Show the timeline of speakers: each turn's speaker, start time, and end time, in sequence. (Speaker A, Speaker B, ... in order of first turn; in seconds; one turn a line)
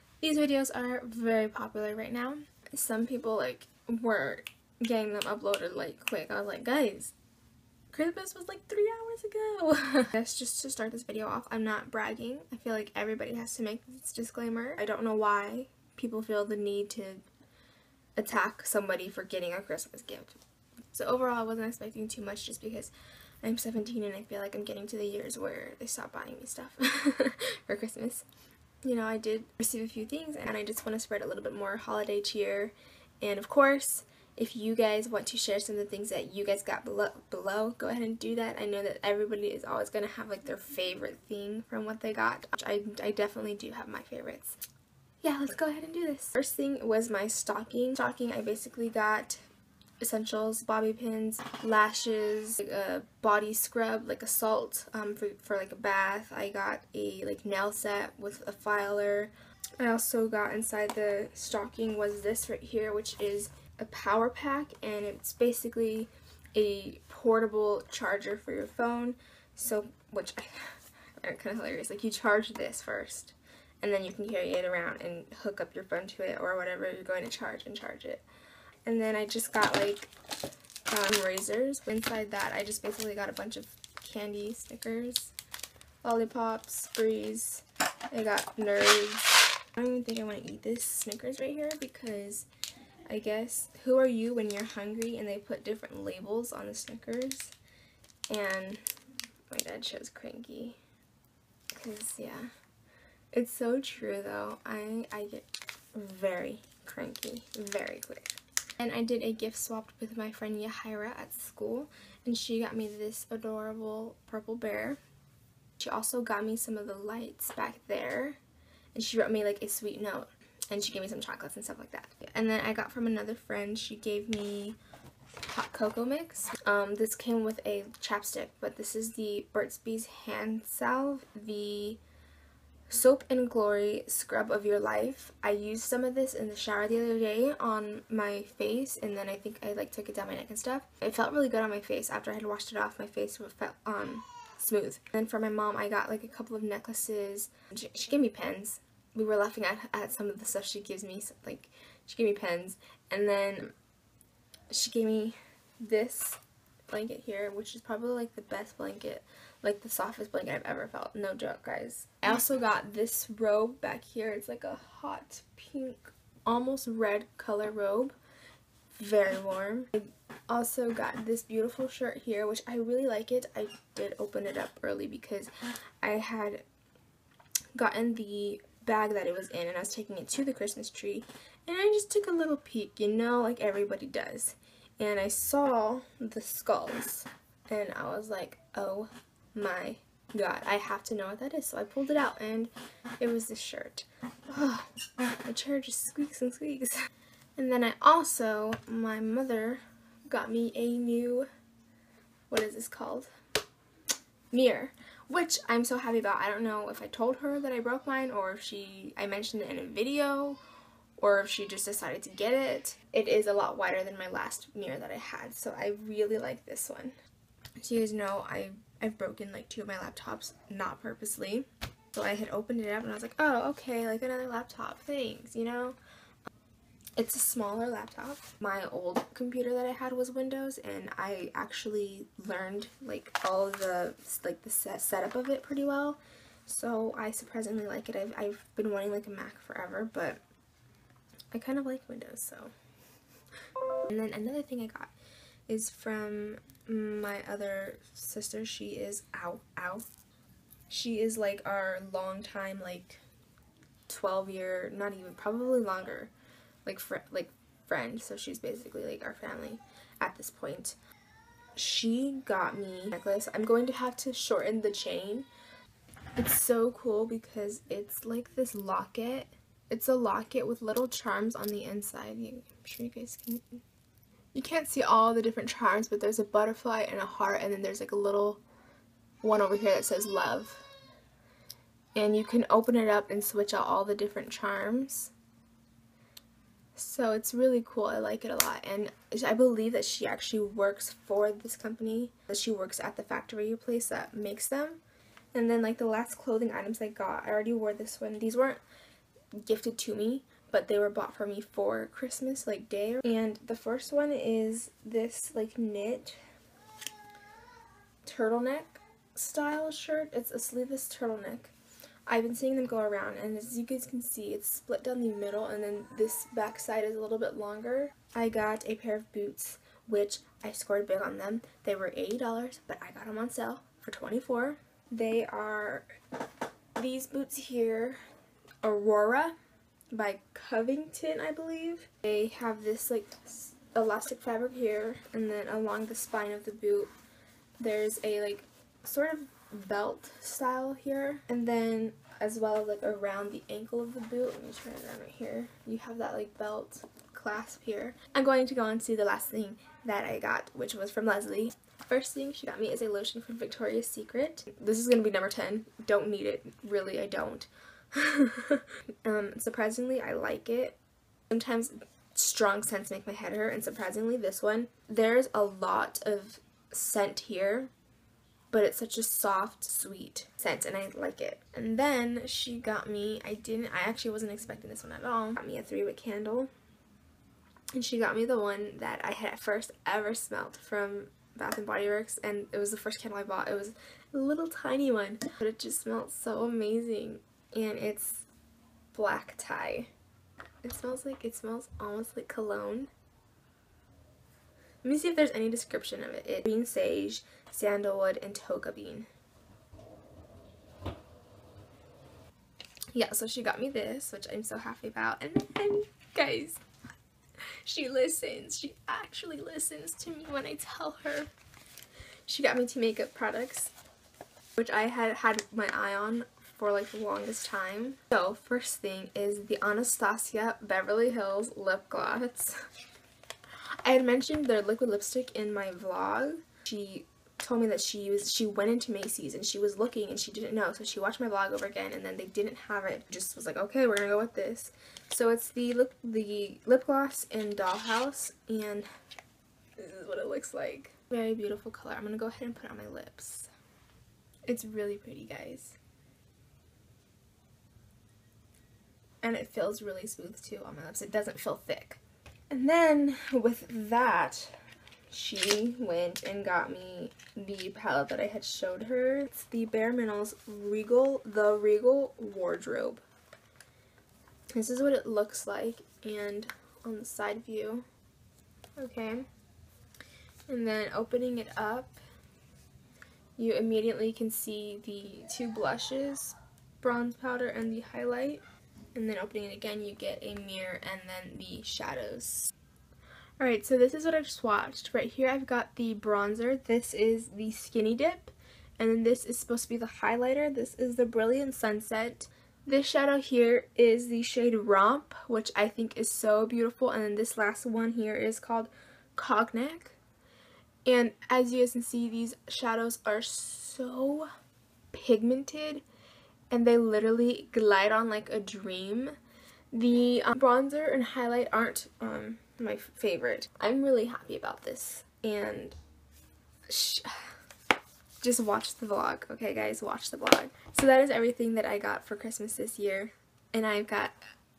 Speaker A: 0.2-7.2
Speaker A: 7.9-17.2
Speaker A: 18.2-20.4
Speaker A: 20.9-28.3
Speaker A: 28.8-44.6
Speaker A: 45.2-49.4
Speaker A: 50.0-78.2
Speaker A: 78.9-80.1
Speaker A: 80.9-85.3
Speaker A: 86.0-92.5
Speaker A: 93.1-97.5
Speaker A: 98.3-98.8
Speaker A: 99.5-100.8
Speaker A: 101.7-102.5
Speaker A: 103.3-115.0
Speaker A: 115.8-118.4
Speaker A: 118.9-124.8
Speaker A: 125.4-132.0
Speaker A: 132.9-153.7
Speaker A: 154.7-168.2
Speaker A: 168.9-175.5
Speaker A: 176.0-176.7
Speaker A: 177.8-197.0
Speaker A: 197.6-201.5
Speaker A: 202.5-203.3
Speaker A: 204.5-210.6
Speaker A: 211.2-217.2
Speaker A: 217.8-226.0
Speaker A: 227.2-240.4
Speaker A: 241.5-242.7
Speaker A: 244.1-245.1
Speaker A: 245.7-250.1
Speaker A: 250.9-253.2
Speaker A: 254.1-256.3
Speaker A: 256.9-261.0
Speaker A: 261.8-265.5
Speaker A: 266.4-273.8
Speaker A: 274.5-278.6
Speaker A: 279.4-280.9
Speaker A: 282.1-285.3
Speaker A: 286.9-295.0
Speaker A: 295.5-298.8
Speaker A: 299.5-306.4
Speaker A: 308.2-311.7
Speaker A: 312.3-326.1
Speaker A: 327.0-328.2
Speaker A: 328.8-329.6
Speaker A: 330.1-337.1
Speaker A: 337.8-361.0
Speaker A: 361.5-367.9
Speaker A: 368.7-376.7
Speaker A: 377.9-388.5
Speaker A: 389.1-390.1
Speaker A: 390.8-393.1
Speaker A: 395.0-399.3
Speaker A: 403.1-406.8
Speaker A: 407.8-411.5
Speaker A: 412.5-413.9
Speaker A: 414.8-422.8
Speaker A: 424.0-439.1
Speaker A: 440.0-443.7
Speaker A: 444.7-446.0
Speaker A: 449.4-454.8
Speaker A: 455.3-463.2
Speaker A: 464.7-468.1
Speaker A: 469.0-469.5
Speaker A: 470.7-472.2
Speaker A: 473.6-478.6
Speaker A: 479.1-482.7
Speaker A: 483.6-500.2
Speaker A: 501.1-504.5
Speaker A: 505.1-506.0
Speaker A: 506.7-509.4
Speaker A: 509.9-516.0
Speaker A: 516.9-517.5
Speaker A: 518.4-524.5